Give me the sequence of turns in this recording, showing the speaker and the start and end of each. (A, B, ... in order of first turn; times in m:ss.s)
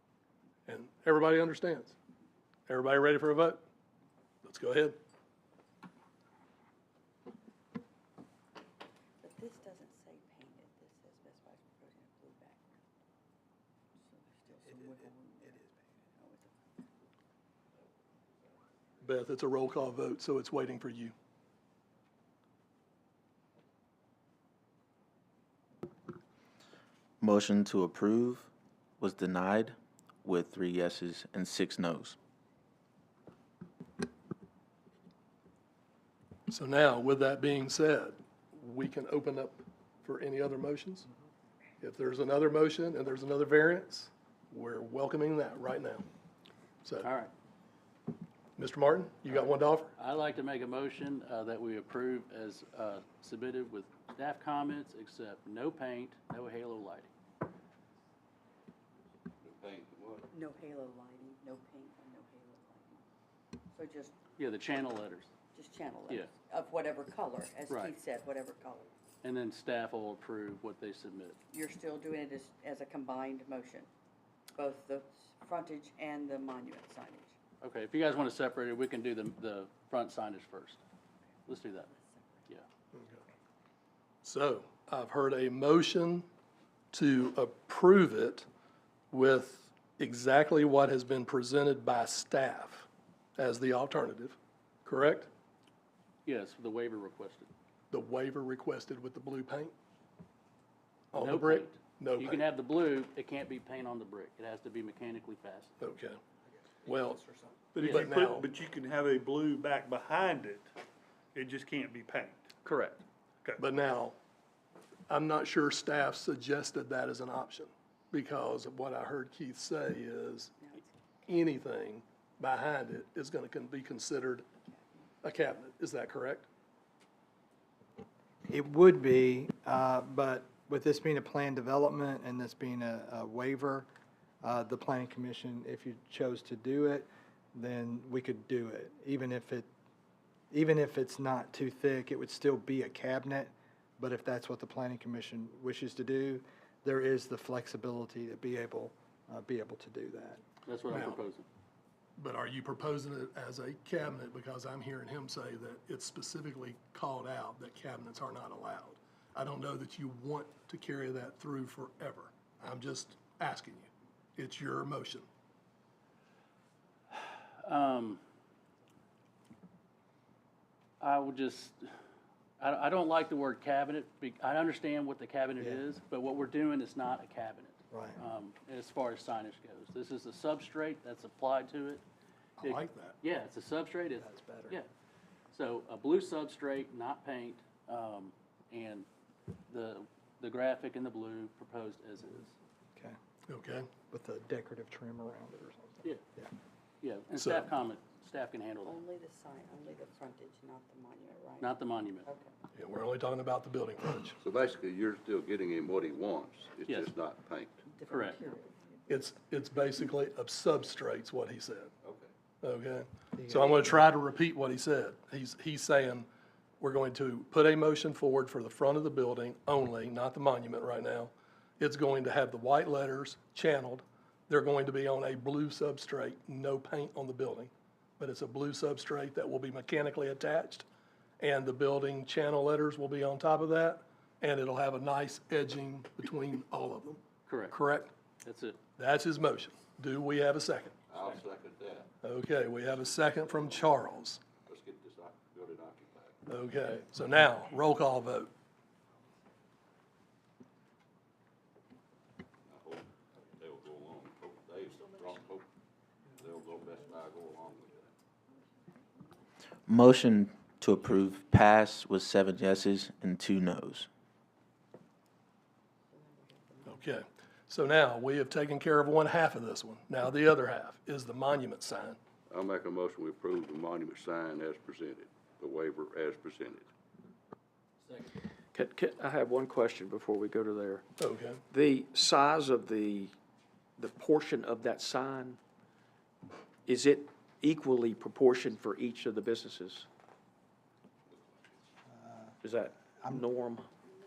0:00.7-0:01.9 A
0:02.7-0:03.6 A
0:04.4-0:05.0 A
0:09.2-0:12.7 B
0:14.0-0:16.8 B
0:19.0-0:21.1 A
0:27.2-0:32.2 C
0:36.5-0:41.1 A
0:41.8-0:46.0 A
0:46.8-0:47.1 A
0:47.0-0:47.3 D
0:48.6-0:49.9 A
0:49.3-0:57.1 D
0:59.4-1:00.3 E
1:00.3-1:03.0 B
1:03.7-1:04.2 B
1:04.4-1:05.3 D
1:05.5-1:08.9 B
1:07.7-1:07.9 D
1:09.2-1:11.4 D
1:11.5-1:13.9 B
1:14.5-1:17.3 B
1:17.6-1:20.8 D
1:21.5-1:21.9 D
1:21.7-1:22.5 B
1:24.2-1:26.3 A
1:26.9-1:28.4 A
1:29.1-1:35.3 A
1:36.2-1:37.5 D
1:37.9-1:39.7 A
1:41.1-1:42.4 A
1:41.1-1:45.7 D
1:45.8-1:46.2 A
1:46.8-1:47.2 A
1:46.9-1:50.7 F
1:47.7-1:48.5 A
1:51.3-1:52.5 F
1:52.6-1:53.0 D
1:53.6-1:54.1 A
1:55.1-2:00.6 A
2:00.6-2:01.0 B
2:01.3-2:04.4 A
2:05.2-2:06.5 A
2:08.5-2:13.9 G
2:14.4-2:19.7 G
2:20.5-2:30.4 G
2:30.6-2:31.4 D
2:30.9-2:31.2 A
2:32.2-2:45.2 A
2:47.6-2:48.2 D
2:51.0-2:51.9 D
2:52.6-3:02.0 D
2:55.6-2:55.8 G
2:57.9-2:58.2 G
3:02.6-3:03.2 A
3:02.6-3:04.9 D
3:04.2-3:04.8 G
3:05.5-3:09.1 D
3:09.7-3:12.5 D
3:13.5-3:13.9 A
3:14.1-3:16.5 G
3:17.0-3:19.0 D
3:17.4-3:17.7 A
3:18.8-3:22.5 B
3:21.6-3:22.3 D
3:22.7-3:24.4 A
3:24.4-3:27.8 E
3:27.9-3:29.2 B
3:28.1-3:28.4 D
3:29.1-3:31.9 A
3:32.0-3:32.3 E
3:32.6-3:36.3 A
3:33.4-3:33.8 G
3:36.8-3:50.8 A
3:51.4-3:58.1 A
3:57.5-3:57.8 D
3:58.4-3:58.8 D
3:59.0-4:01.0 A
4:01.1-4:02.1 E
4:02.2-4:04.4 A
4:03.5-4:03.8 E
4:04.6-4:06.4 E
4:06.5-4:08.5 A
4:12.7-4:15.7 E
4:16.4-4:18.1 E
4:19.9-4:24.1 C
4:26.1-4:27.1 B
4:26.9-4:32.2 A
4:32.5-4:36.9 E
4:38.0-4:38.3 D
4:38.7-4:41.0 H
4:41.2-4:41.6 A
4:41.7-4:43.3 H
4:44.0-4:45.6 H
4:46.8-4:50.1 H
4:51.3-4:51.7 E
4:52.1-4:52.5 G
4:52.6-4:53.9 H